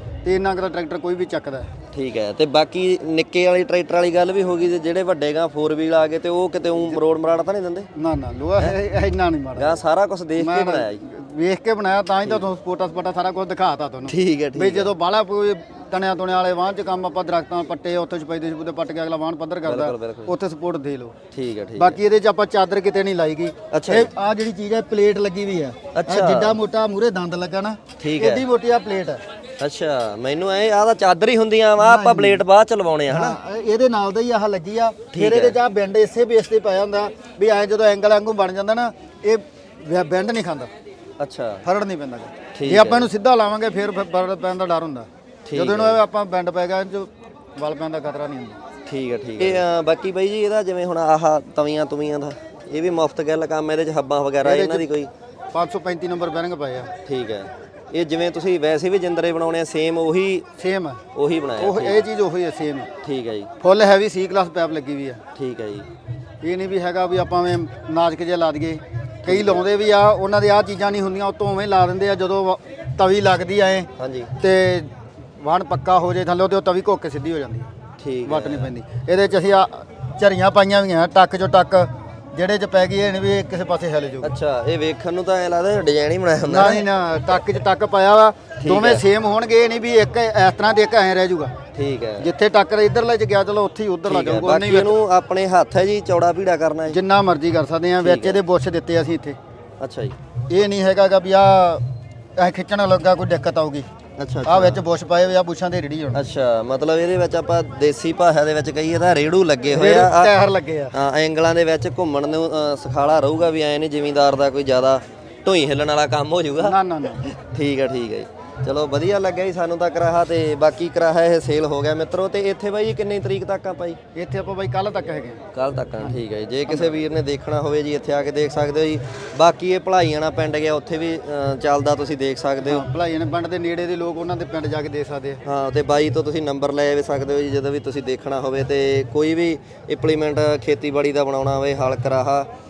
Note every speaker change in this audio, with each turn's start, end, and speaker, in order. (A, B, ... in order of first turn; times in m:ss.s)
0:00.2-0:01.7 A
0:01.9-0:07.9 B
0:08.0-0:09.8 A
0:09.6-0:11.0 B
0:10.4-0:21.2 A
0:14.1-0:14.9 B
0:19.7-0:20.3 B
0:21.3-0:22.0 B
0:21.8-0:29.2 A
0:23.7-0:24.1 B
0:25.9-0:26.6 B
0:28.0-0:28.4 B
0:29.6-0:33.4 B
0:31.8-0:32.4 A
0:33.1-0:40.7 A
0:35.1-0:35.6 B
0:41.2-0:41.6 B
0:41.6-0:48.6 A
0:42.6-0:43.1 B
0:45.5-0:46.0 B
0:48.9-0:55.1 B
0:54.4-0:54.9 A
0:55.5-0:56.9 A
0:57.0-1:00.5 B
1:00.6-1:01.0 A
1:01.1-1:02.0 B
1:01.6-1:02.9 A
1:03.0-1:03.5 B
1:03.6-1:05.2 A
1:05.4-1:05.9 B
1:06.4-1:13.9 A
1:09.2-1:09.6 B
1:14.0-1:14.3 B
1:14.4-1:17.7 A
1:18.0-1:18.7 B
1:18.2-1:24.3 A
1:24.2-1:27.4 B
1:26.5-1:31.5 A
1:28.6-1:29.0 B
1:31.7-1:32.3 B
1:32.2-1:35.0 A
1:34.1-1:37.0 B
1:36.9-1:39.4 A
1:38.0-1:38.4 B
1:39.8-1:40.2 B
1:40.5-1:41.8 A
1:42.4-1:43.9 A
1:44.2-1:44.8 B
1:44.4-1:46.3 A
1:46.1-1:50.3 B
1:49.7-1:50.9 A
1:50.9-2:04.0 B
1:56.6-1:57.2 A
2:04.2-2:05.4 A
2:05.5-2:12.8 B
2:06.0-2:07.0 A
2:12.6-2:15.4 A
2:15.4-2:22.5 B